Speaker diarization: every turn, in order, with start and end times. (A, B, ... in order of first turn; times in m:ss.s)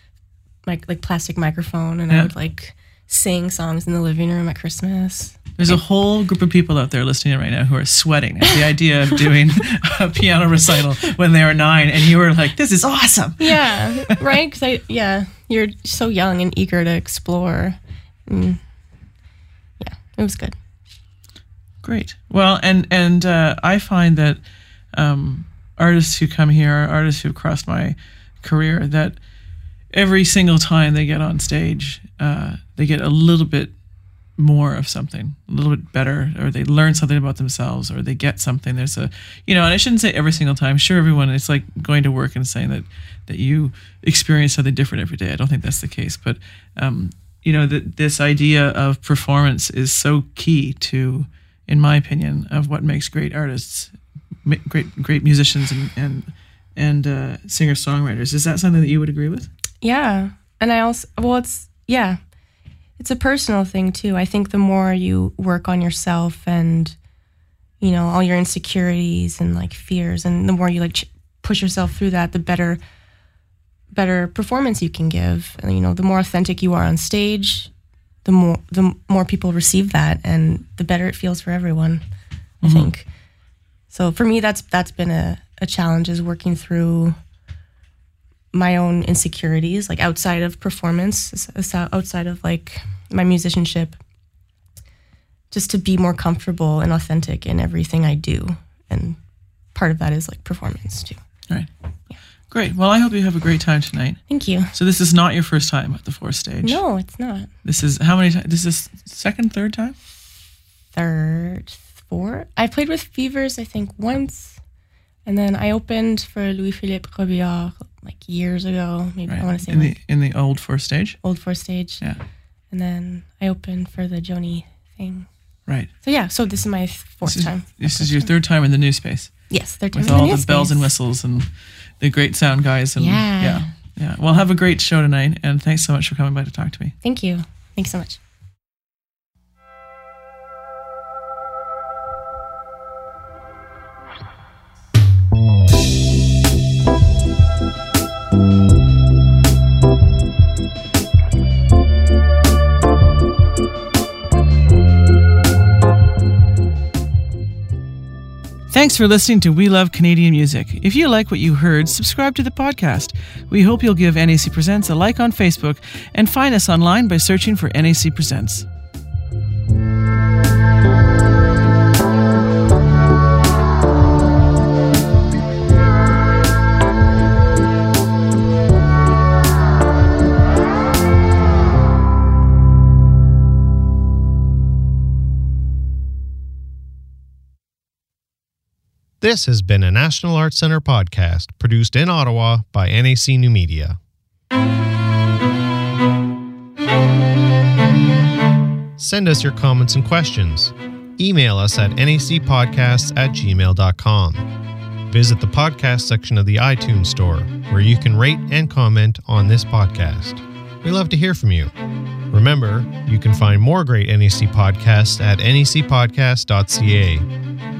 0:00.6-0:05.8 A
0:05.6-0:14.2 B
0:13.4-0:18.6 A
0:19.8-0:20.6 A
0:21.8-0:24.4 B
0:24.9-0:29.2 B
0:29.9-0:33.7 B
0:34.4-0:53.9 B
0:54.4-0:59.5 B
0:59.8-1:02.2 A
1:03.0-1:07.0 A
1:07.8-1:12.8 A
1:13.9-1:17.7 A
1:18.2-1:22.0 A
1:22.6-1:22.9 B
1:22.6-1:23.0 A
1:23.9-1:27.2 A
1:28.5-1:34.0 A
1:35.5-1:39.2 A
1:39.7-1:41.2 A
1:42.5-1:46.8 B
1:44.3-1:44.7 A
1:46.6-1:47.5 A
1:47.6-1:49.9 B
1:50.9-1:54.6 A
1:55.2-2:00.0 A
1:59.3-2:01.2 B
2:01.2-2:02.0 A
2:02.7-2:05.3 A
2:06.0-2:08.3 A
2:07.2-2:16.9 B
2:09.5-2:10.9 A
2:13.0-2:13.7 A
2:17.0-2:18.2 A
2:38.7-2:48.7 B
3:09.2-3:14.0 C
3:19.0-3:24.5 C
3:25.1-3:31.7 C
3:32.3-3:37.3 C